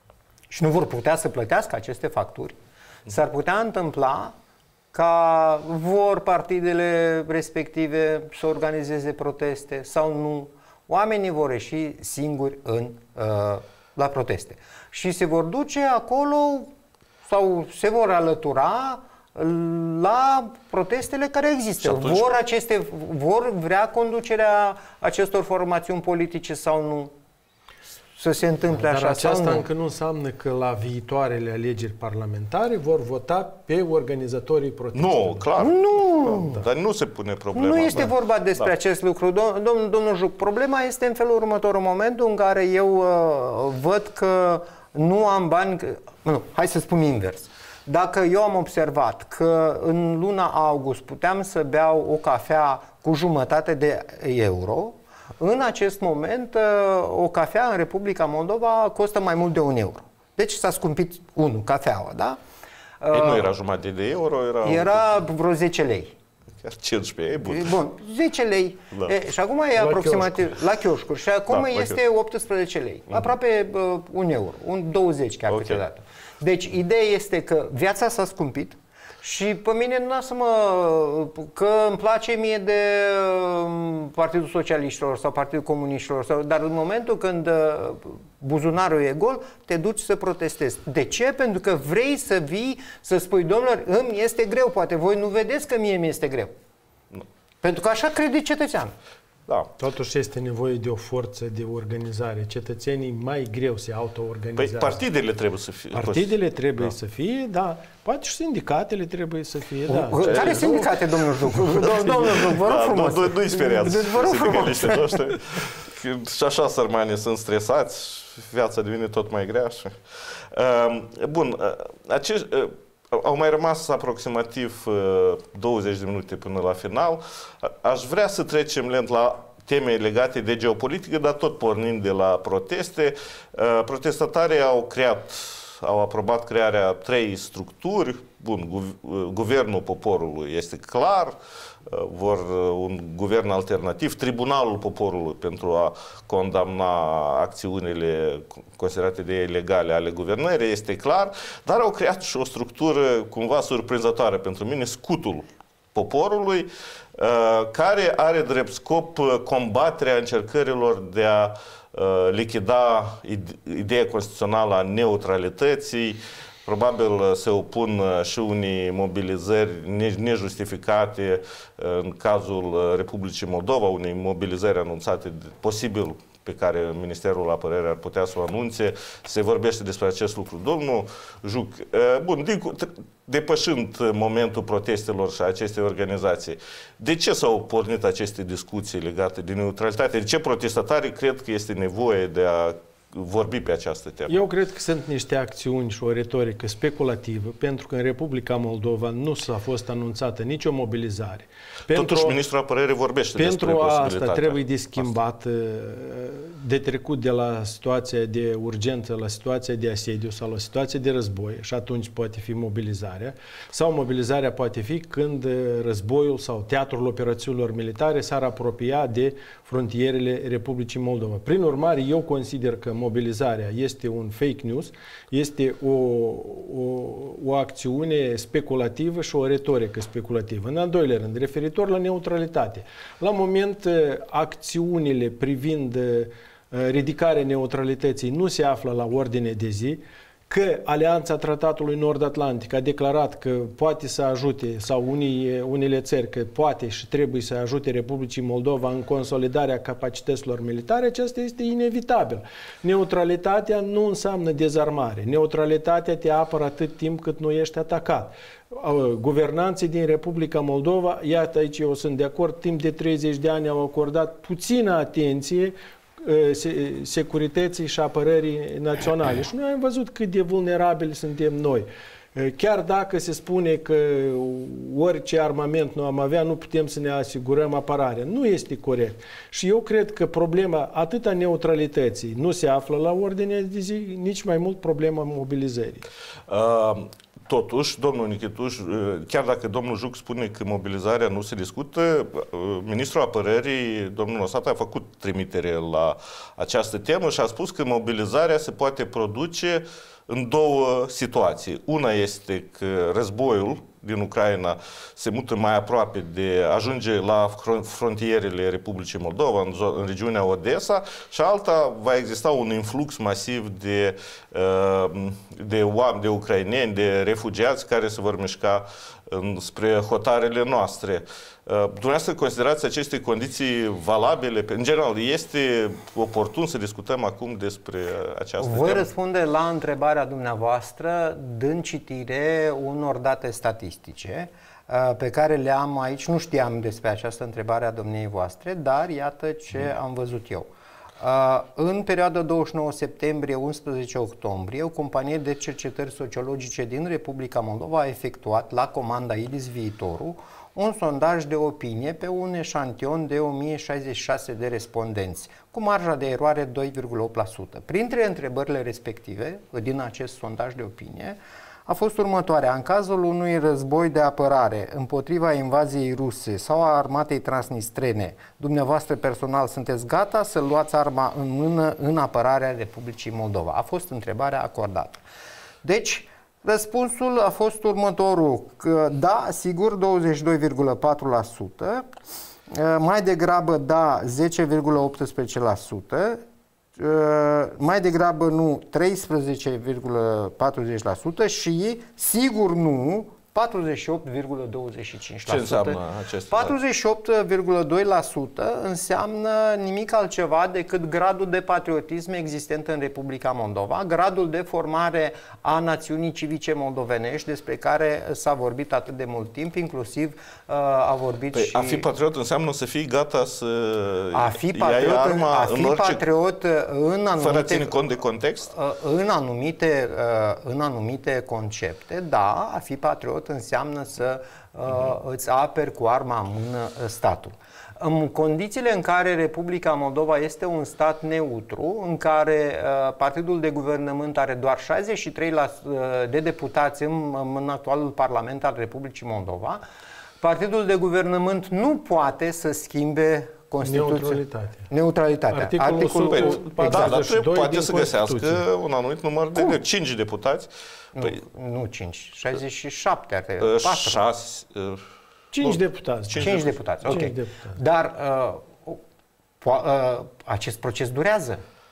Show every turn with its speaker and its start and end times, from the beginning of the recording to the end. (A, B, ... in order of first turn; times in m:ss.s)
0:00.5-0:04.3 A
0:04.9-0:16.7 A
0:17.2-0:27.1 A
0:21.8-0:22.3 B
0:28.2-0:29.6 A
0:28.7-0:35.5 C
0:34.9-0:38.7 B
0:35.6-0:36.6 A
0:37.5-1:02.4 A
1:03.0-1:03.5 A
1:03.1-1:05.2 B
1:04.6-1:06.1 A
1:06.6-1:07.8 B
1:07.4-1:36.5 A
1:09.8-1:10.5 C
1:11.5-1:12.0 B
1:15.5-1:15.8 B
1:37.6-1:38.9 A
1:39.8-1:45.0 C
1:44.6-1:46.9 B
1:45.9-1:50.8 C
1:49.9-1:55.4 A
1:50.2-1:50.9 B
1:51.5-1:59.9 B
2:00.5-2:21.4 B
2:21.9-3:14.4 B
3:14.3-3:22.4 C
3:21.9-3:25.1 B
3:23.4-4:46.1 C
4:46.5-5:29.1 B
5:28.6-5:40.7 A
5:41.2-6:15.2 A
6:15.8-6:22.0 A
6:22.7-6:26.4 A
6:27.0-6:52.0 A
6:35.5-6:36.8 B
6:51.5-6:56.2 B
6:54.3-6:57.9 A
6:57.4-6:58.7 B
6:58.7-7:19.8 A
7:20.4-7:27.2 A
7:23.8-7:24.9 C
7:25.5-7:28.6 C
7:26.3-7:30.7 B
7:31.1-7:34.2 A
7:33.6-7:35.0 B
7:35.5-7:37.8 C
7:35.6-7:36.7 B
7:36.4-7:39.0 A
7:39.6-7:41.6 A